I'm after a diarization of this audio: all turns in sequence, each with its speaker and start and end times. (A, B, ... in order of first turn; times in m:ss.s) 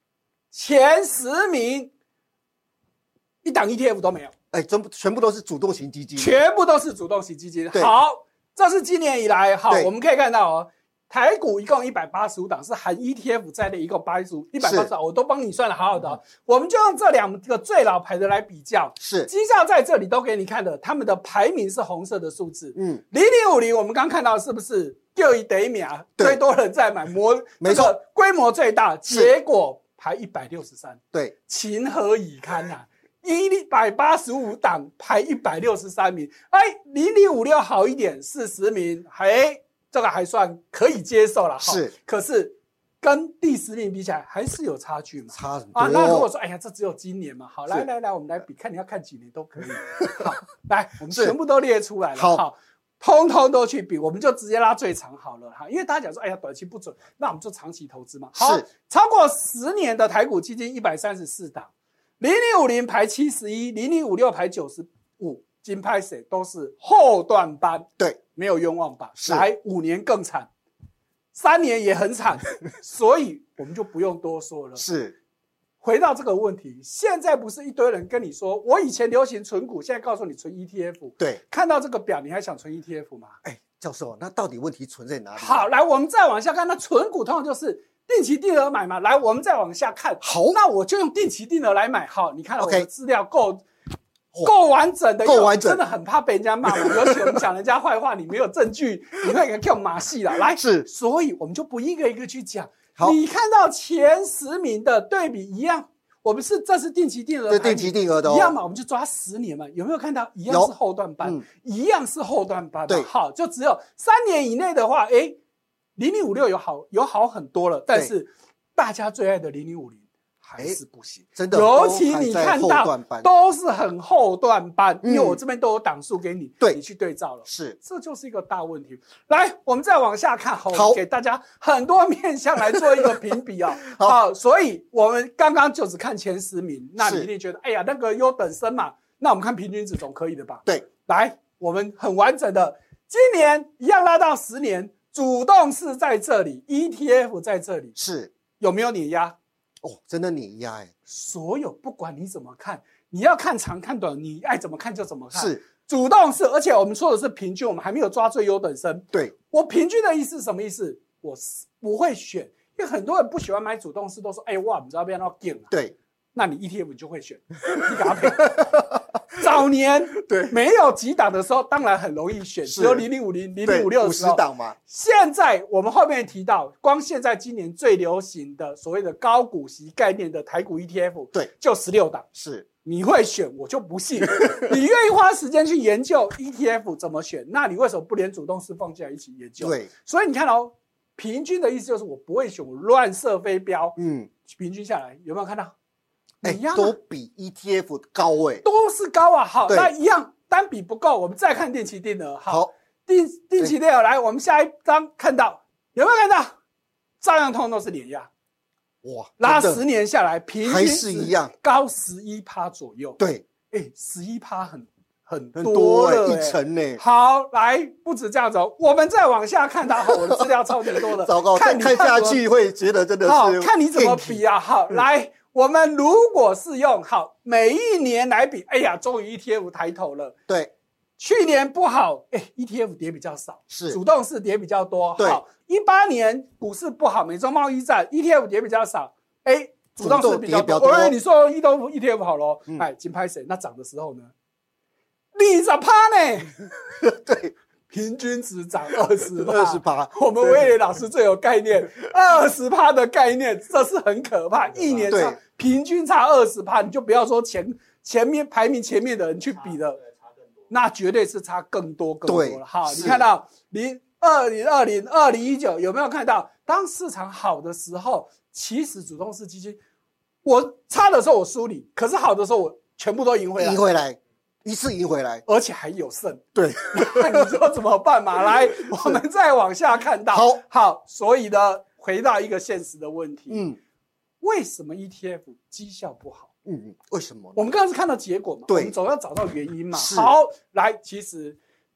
0:00.5-0:01.9 A
0:03.4-0:04.3 A
0:04.5-0:06.4 B
0:06.2-1:01.7 A
0:14.6-0:14.9 B
0:19.0-0:19.3 B
0:22.8-0:23.0 B
0:27.6-0:28.0 B
0:29.1-0:29.3 B
0:41.6-0:41.9 B
0:45.3-0:46.3 B
0:50.0-0:50.3 B
0:51.1-0:51.4 B
0:52.2-0:52.4 B
0:58.4-0:58.6 B
1:02.2-1:10.5 A
1:09.2-1:09.5 B
1:11.3-1:14.9 A
1:14.8-1:15.2 B
1:15.8-1:23.4 A
1:23.4-1:25.7 B
1:25.4-1:33.6 A
1:30.2-1:30.6 B
1:32.6-1:32.9 B
1:34.4-1:55.4 A
1:35.2-1:35.8 B
1:36.6-1:37.4 B
1:40.5-1:40.9 B
1:47.5-1:48.6 B
1:50.5-1:51.4 B
1:56.0-2:28.0 A
2:01.4-2:03.3 B
2:05.0-2:05.4 B
2:07.5-2:07.8 B
2:10.7-2:11.0 B
2:12.7-2:13.1 B
2:13.9-2:14.2 B
2:17.0-2:17.3 B
2:28.0-2:28.3 B
2:28.6-2:29.4 A
2:29.8-2:30.9 B
2:31.1-2:45.7 A
2:35.3-2:35.6 B
2:46.4-2:48.8 A
2:47.8-2:49.4 B
2:49.3-3:02.3 A
2:50.2-2:50.6 B
2:52.7-2:53.1 B
2:53.6-2:54.8 B
3:02.4-3:02.7 B
3:02.8-3:15.7 A
3:04.3-3:04.7 B
3:09.6-3:09.9 B
3:14.0-3:14.3 B
3:16.4-3:17.0 A
3:16.4-3:18.6 B
3:18.6-3:26.6 A
3:27.2-3:28.3 A
3:29.0-3:29.8 B
3:29.4-3:33.2 A
3:30.6-3:31.5 B
3:33.2-3:33.5 B
3:33.7-3:42.4 A
3:35.6-3:37.0 B
3:40.1-3:45.0 B
3:43.2-3:50.4 A
3:51.2-4:04.3 A
3:53.7-3:54.0 B
4:00.0-4:01.2 B
4:05.4-4:06.7 A
4:07.0-4:07.5 B
4:07.9-4:20.0 A
4:09.3-4:10.7 B
4:15.1-4:15.4 B
4:20.7-4:29.8 A
4:22.3-4:23.2 B
4:30.4-4:33.8 A
4:33.6-4:35.4 B
4:35.5-4:43.7 A
4:36.6-4:37.6 B
4:38.9-4:39.2 B
4:40.3-4:40.6 B
4:43.5-4:43.8 B
4:44.4-4:46.5 A
4:46.6-4:47.6 B
4:47.6-4:51.6 A
4:48.7-4:48.9 B
4:49.9-4:50.4 B